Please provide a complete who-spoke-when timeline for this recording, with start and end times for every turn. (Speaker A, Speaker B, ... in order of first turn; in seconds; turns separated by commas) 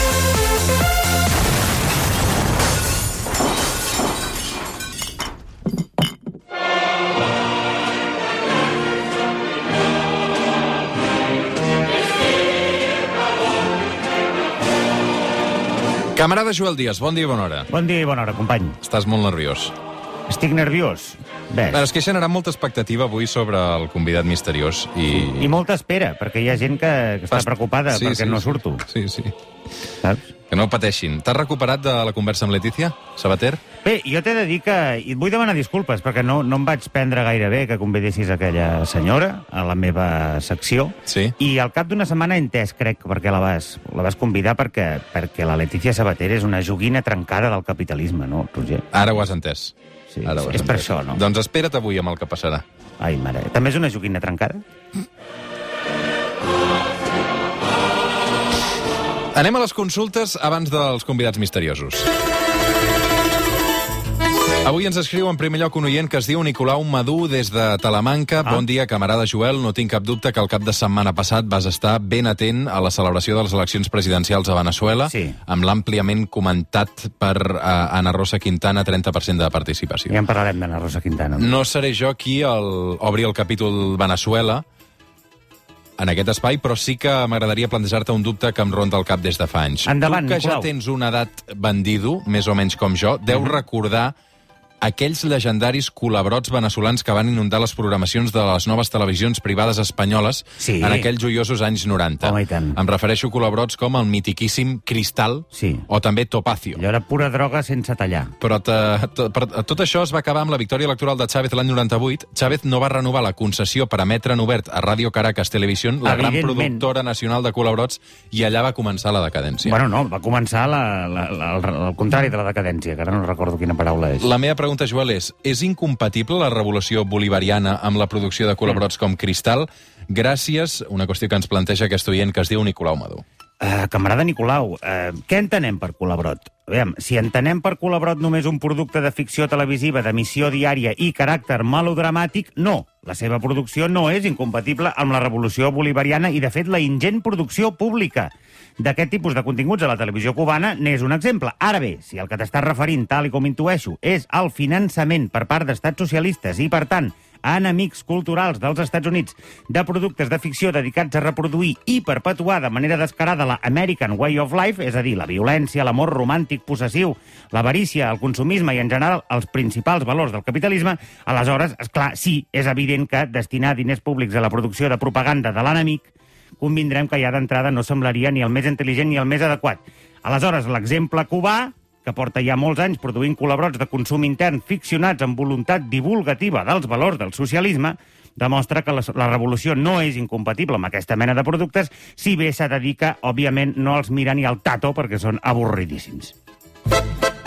Speaker A: 16.1-17.7, Speaker B: 17.7-18.8, Speaker A: 18.8-19.8, Speaker B: 20.3-21.8, Speaker A: 21.7-25.5, Speaker B: 25.1-28.9, Speaker A: 27.3-29.3, Speaker B: 30.0-30.3, Speaker A: 30.5-33.6, Speaker B: 33.8-48.9, Speaker A: 41.1-41.4, Speaker A: 48.9-52.6, Speaker B: 50.1-51.2, Speaker B: 53.0-54.6, Speaker A: 59.3-62.1, Speaker A: 64.6-80.2, Speaker B: 75.1-75.4, Speaker B: 80.1-81.5, Speaker A: 81.4-84.6, Speaker A: 86.0-94.1, Speaker B: 89.9-90.7, Speaker B: 93.3-93.6, Speaker A: 94.8-106.8, Speaker B: 100.6-101.1, Speaker B: 102.2-102.8, Speaker B: 105.5-105.9, Speaker B: 106.8-108.3, Speaker A: 108.4-119.8, Speaker B: 116.0-116.9, Speaker B: 119.7-124.3, Speaker A: 124.2-133.2, Speaker B: 133.6-196.3